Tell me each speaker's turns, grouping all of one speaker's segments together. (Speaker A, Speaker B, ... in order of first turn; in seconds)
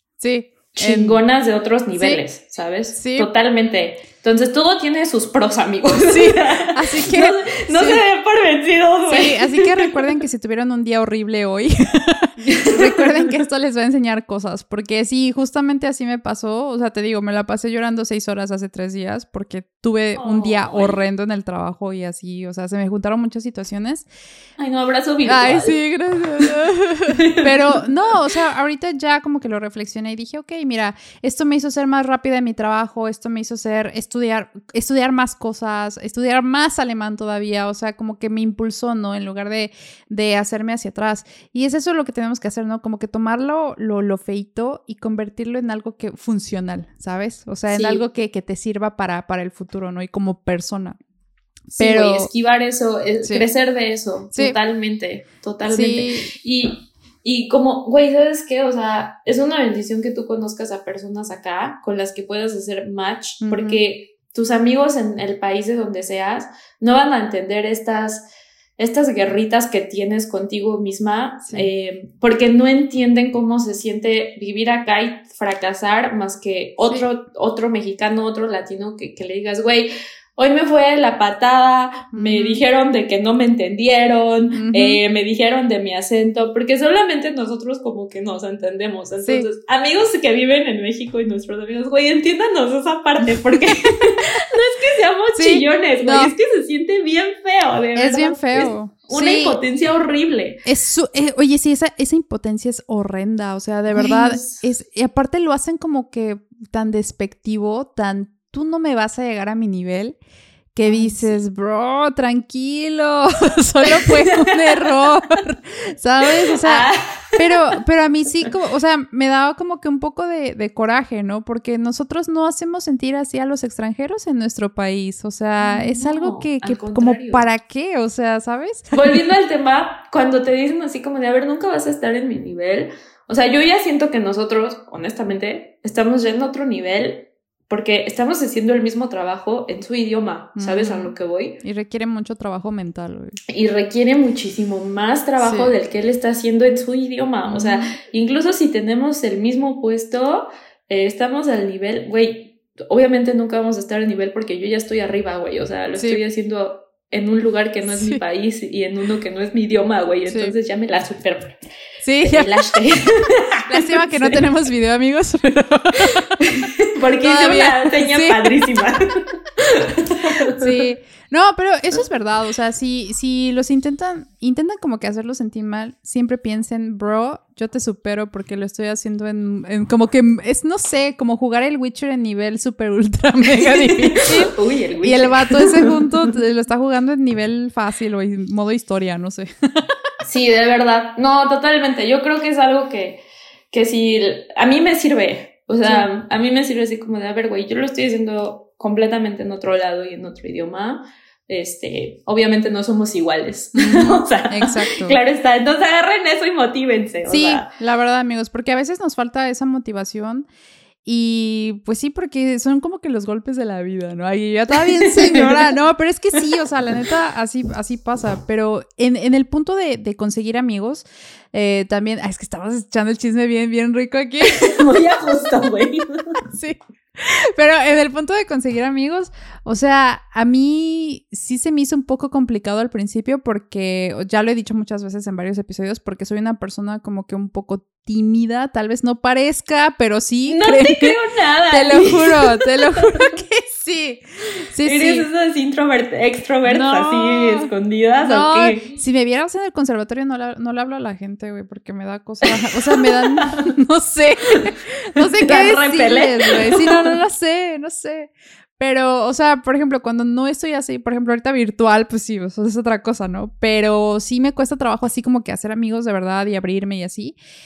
Speaker A: 0.2-1.2, 1.9-2.2, 3.0-3.3, 6.1-8.0, 9.1-24.1, 25.2-51.0, 51.7-52.3, 54.3-54.6, 55.7-56.3, 63.4-63.8, 82.1-82.6, 84.5-85.0, 89.2-89.5, 95.3-96.3, 98.0-99.6, 100.7-110.2, 110.8-129.0, 140.6-143.4, 145.4-145.7, 147.5-147.9, 156.0-156.2, 157.9-158.2, 160.3-160.5, 162.0-162.5, 163.7-166.4, 167.2-168.7, 170.6-189.9, 203.8-205.2, 207.3-210.5, 211.1-224.9, 226.5-241.2, 241.7-245.3, 246.7-247.7, 248.2-267.4
Speaker B: 0.7-9.9, 12.4-13.4, 20.1-21.0, 24.6-25.8, 27.1-27.9, 47.7-48.0, 51.8-68.3, 68.8-100.6, 103.9-104.6, 110.8-111.4, 113.8-114.9, 116.3-117.8, 125.6-127.5, 128.9-141.6, 143.5-161.6, 162.2-164.4, 166.1-170.7, 183.6-186.1, 190.2-207.7, 214.8-215.7, 224.4-226.4, 240.5-243.3, 244.8-248.9, 252.5-253.7, 254.6-257.1